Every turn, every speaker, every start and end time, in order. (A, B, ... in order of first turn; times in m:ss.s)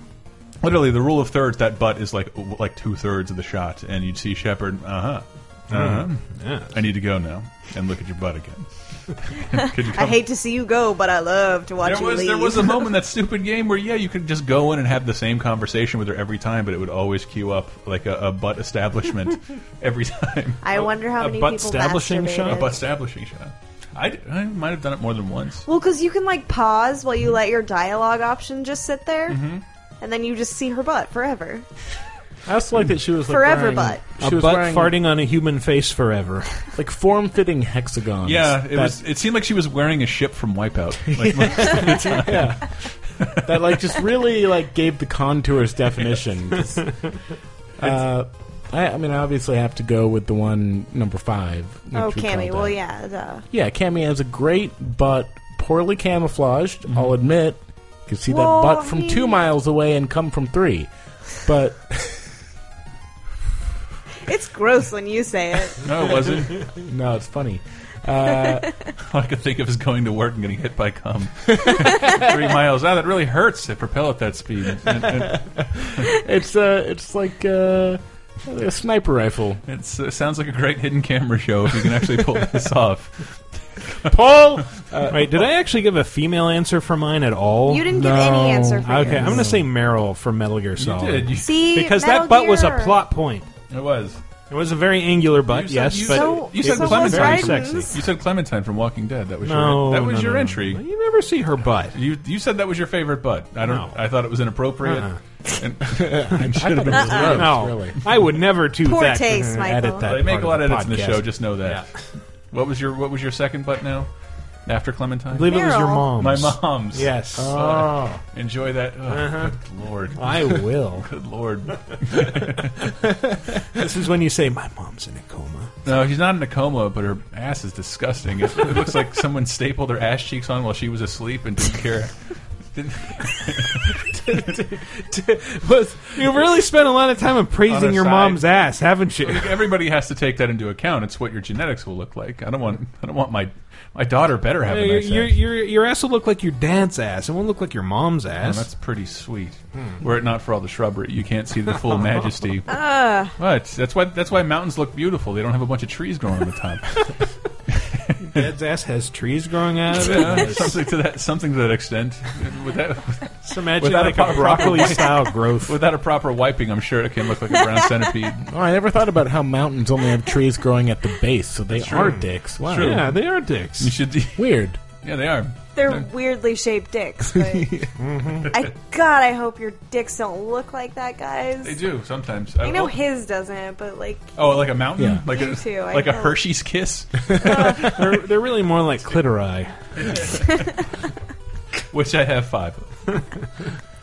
0:00.6-0:10.2 A
0:05.7-0:06.7 B
0:09.8-0:12.9 C
0:11.8-0:20.9 A
0:20.6-0:22.8 C
0:21.2-0:22.6 B
0:22.4-0:25.6 A
0:25.6-0:29.4 C
0:29.3-0:29.6 A
0:30.0-0:31.6 C
0:32.4-0:35.0 D
0:33.2-0:34.0 C
0:34.2-0:36.5 B
0:36.8-0:39.0 D
0:38.2-0:42.5 A
0:41.2-0:42.7 D
0:43.2-0:43.5 A
0:43.3-0:47.0 D
0:47.8-0:52.8 D
0:51.9-0:53.4 C
0:53.5-1:02.3 D
0:56.9-0:57.1 A
0:58.3-0:59.4 C
1:04.3-1:05.8 C
1:05.8-1:06.7 A
1:06.8-1:08.7 D
1:09.0-1:16.0 A
1:14.9-1:19.6 D
1:19.7-1:24.2 A
1:24.0-1:25.3 D
1:25.1-1:27.8 B
1:27.7-1:29.5 C
1:27.9-1:29.6 D
1:28.8-1:33.5 B
1:30.8-1:31.6 A
1:31.4-1:33.0 C
1:33.7-1:34.2 A
1:34.5-1:37.9 B
1:35.5-1:40.8 A
1:36.1-1:38.0 C
1:39.4-1:42.0 B
1:41.9-1:47.5 A
1:43.6-1:44.0 B
1:44.8-1:45.2 B
1:45.8-1:48.0 D
1:46.9-1:47.4 C
1:47.3-1:51.7 B
1:48.8-1:50.1 C
1:50.0-1:51.8 A
1:52.5-1:54.1 A
1:54.6-2:02.9 A
1:55.3-1:57.5 B
1:55.4-1:56.1 C
1:57.3-1:58.2 D
1:59.1-1:59.6 B
2:00.1-2:01.1 B
2:02.8-2:05.7 B
2:05.8-2:12.1 A
2:12.7-2:14.6 A
2:15.3-2:19.6 B
2:17.7-2:18.5 A
2:19.2-2:25.4 A
2:24.7-2:28.7 B
2:28.4-2:32.8 A
2:32.7-2:33.3 C
2:33.4-2:37.1 A
2:37.7-2:38.5 A
2:38.2-2:40.8 B
2:39.9-2:48.4 A
2:43.4-2:45.8 B
2:48.4-2:53.0 D
2:51.7-2:53.2 A
2:52.7-2:53.9 B
2:53.8-2:56.1 A
2:54.4-2:54.8 D
2:55.7-2:57.8 C
2:57.3-2:57.9 D
2:58.0-2:58.5 B
2:58.4-3:01.8 C
3:01.6-3:03.0 A
3:02.6-3:04.3 C
3:04.4-3:08.0 A
3:05.0-3:05.2 D
3:05.3-3:06.4 C
3:07.4-3:08.0 C
3:07.8-3:10.2 B
3:10.0-3:10.6 A
3:11.9-3:13.1 A